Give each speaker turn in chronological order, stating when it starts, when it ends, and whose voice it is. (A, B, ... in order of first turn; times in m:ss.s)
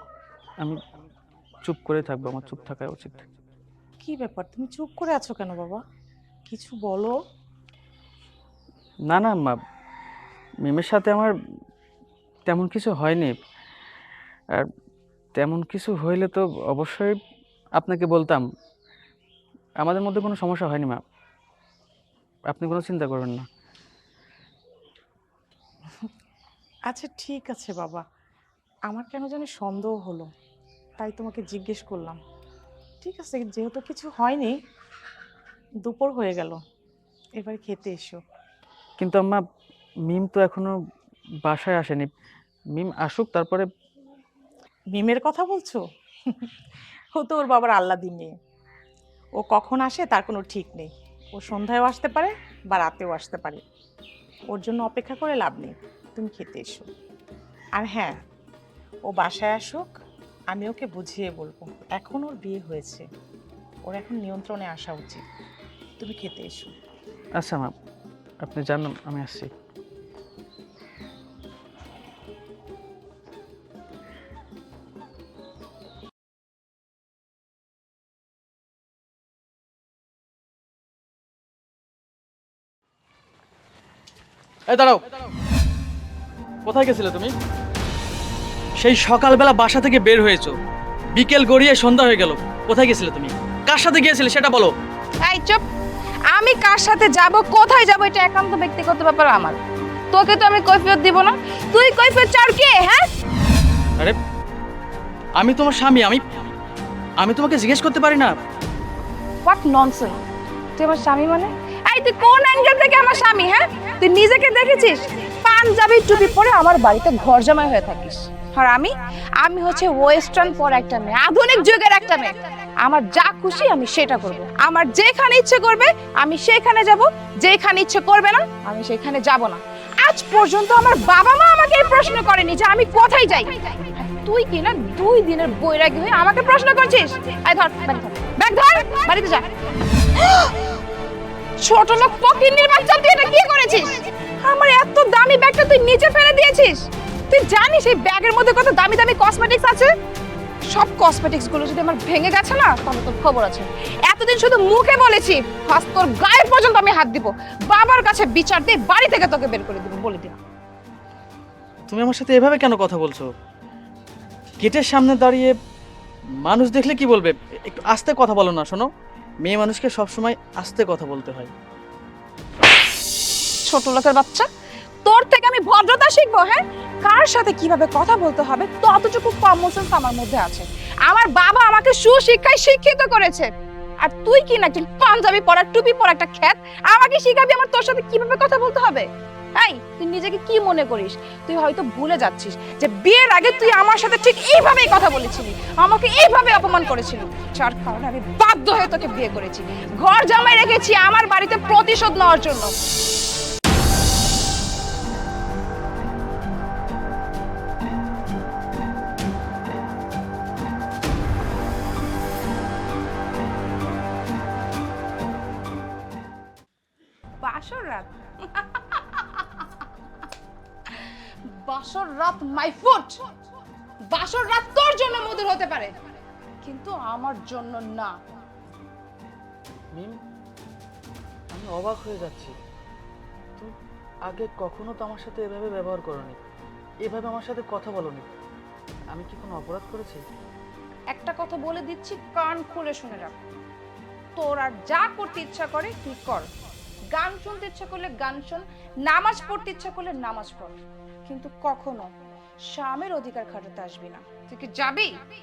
0:01.6-0:03.3 A
0:04.0-0:05.8 B
0:06.5-0:07.1 B
0:09.1-0:09.6 A
0:10.6-0:11.3 A
0:12.5-0:13.4 A
0:15.4-0:17.1 A
0:17.8-0:18.4 A
0:19.8-0:21.0 A
0:22.5-0:23.4 A
0:26.9-0:28.0 B
0:28.9-0:30.3 B
0:31.0-0:32.2 B
0:33.0-0:34.6 B
0:35.8-0:36.6 B
0:37.4-0:38.2 B
0:39.0-0:39.4 A
0:40.1-0:40.7 A
0:41.4-0:42.1 A
0:42.7-0:43.7 A
0:44.9-0:46.5 B
0:47.1-0:48.3 B
0:49.4-0:53.6 B
0:54.5-0:56.9 B
0:57.8-0:58.2 B
0:59.1-0:59.9 B
1:00.5-1:03.1 B
1:03.8-1:05.2 B
1:06.0-1:06.7 B
1:07.4-1:07.7 A
1:08.4-1:09.5 A
1:24.7-1:25.0 C
1:26.6-1:27.3 C
1:28.8-1:30.6 C
1:31.1-1:34.7 C
1:35.2-1:35.6 D
1:36.3-1:39.6 D
1:40.1-1:43.1 D
1:45.4-1:46.3 C
1:47.2-1:48.3 C
1:49.4-1:50.2 D
1:50.8-2:20.7 D
2:21.6-2:29.9 D
2:30.7-2:40.4 D
2:41.9-2:43.3 C
2:44.6-2:45.5 C
2:46.4-2:48.9 C
2:49.4-2:51.5 C
2:53.7-2:54.5 D
2:55.0-3:03.5 D
3:04.0-3:22.7 D
3:37.4-3:38.6 D
3:41.5-3:43.2 D
3:44.1-3:45.9 D
3:46.6-3:48.2 D
3:51.5-3:52.6 A
3:54.3-3:56.4 A
3:57.0-3:58.3 A
3:59.1-4:00.2 A
4:01.1-4:03.4 D
4:04.4-4:06.4 D
4:07.1-4:10.8 D
4:11.3-4:12.1 D
4:12.7-4:15.1 D